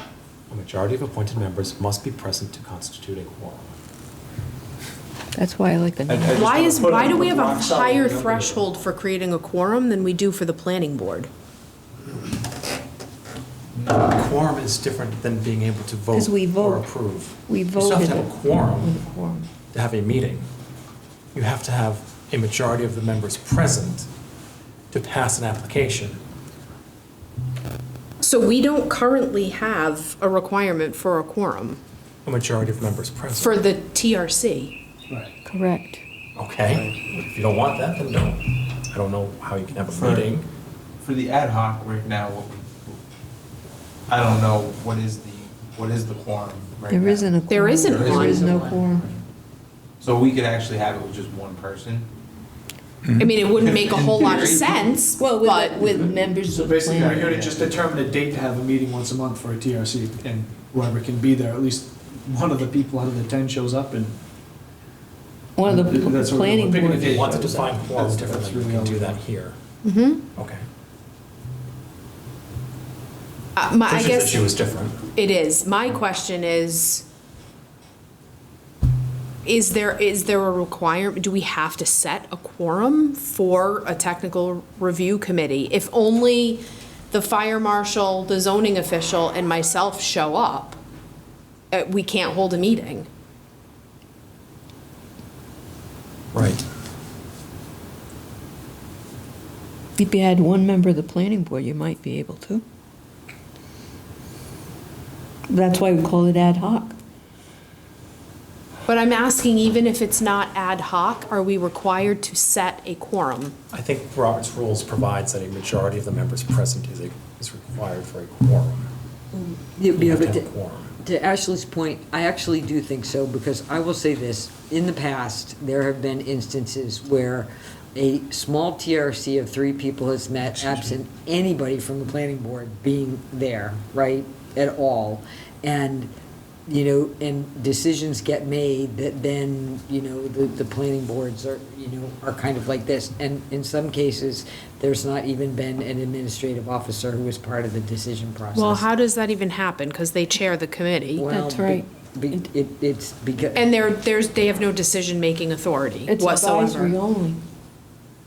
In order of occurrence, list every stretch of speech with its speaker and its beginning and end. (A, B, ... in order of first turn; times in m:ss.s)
0:00.5-0:03.7 A
0:05.3-0:06.4 B
0:06.1-0:08.6 C
0:06.3-0:11.3 D
0:13.9-0:19.0 A
0:16.1-0:16.9 B
0:17.5-0:19.5 B
0:19.7-0:20.5 A
0:21.3-0:24.1 A
0:24.9-0:26.2 A
0:28.2-0:31.8 D
0:32.2-0:33.6 A
0:33.4-0:34.8 D
0:35.5-0:36.0 B
0:36.4-0:40.4 A
0:39.9-0:40.3 C
0:40.0-0:40.2 E
0:41.0-0:42.9 E
0:44.1-0:47.3 E
0:46.6-0:47.3 C
0:46.9-0:49.1 B
0:47.5-0:48.7 D
0:47.8-0:49.0 C
0:47.8-0:48.8 A
0:47.9-0:48.8 E
0:50.0-0:52.0 E
0:53.2-0:56.0 D
0:53.5-0:54.7 C
0:53.6-0:55.0 E
0:55.1-0:57.5 B
0:56.5-1:04.2 C
1:05.6-1:07.1 B
1:05.6-1:09.2 C
1:06.6-1:09.6 A
1:09.8-1:10.2 D
1:10.4-1:10.6 A
1:13.6-1:14.5 D
1:13.9-1:15.0 A
1:15.1-1:17.1 D
1:19.4-1:30.8 D
1:31.7-1:33.1 D
1:36.3-1:36.6 A
1:40.0-1:42.6 B
1:45.5-1:47.0 B
1:48.9-1:53.5 D
1:53.7-1:58.9 A
1:59.3-2:00.5 F
1:59.9-2:00.9 A
2:01.0-2:16.1 F
2:10.5-2:10.9 C
2:16.7-2:28.9 F
2:28.5-2:31.2 D
2:31.2-2:33.7 F
2:31.2-2:31.9 B
2:33.5-2:37.0 D
2:36.0-2:37.4 B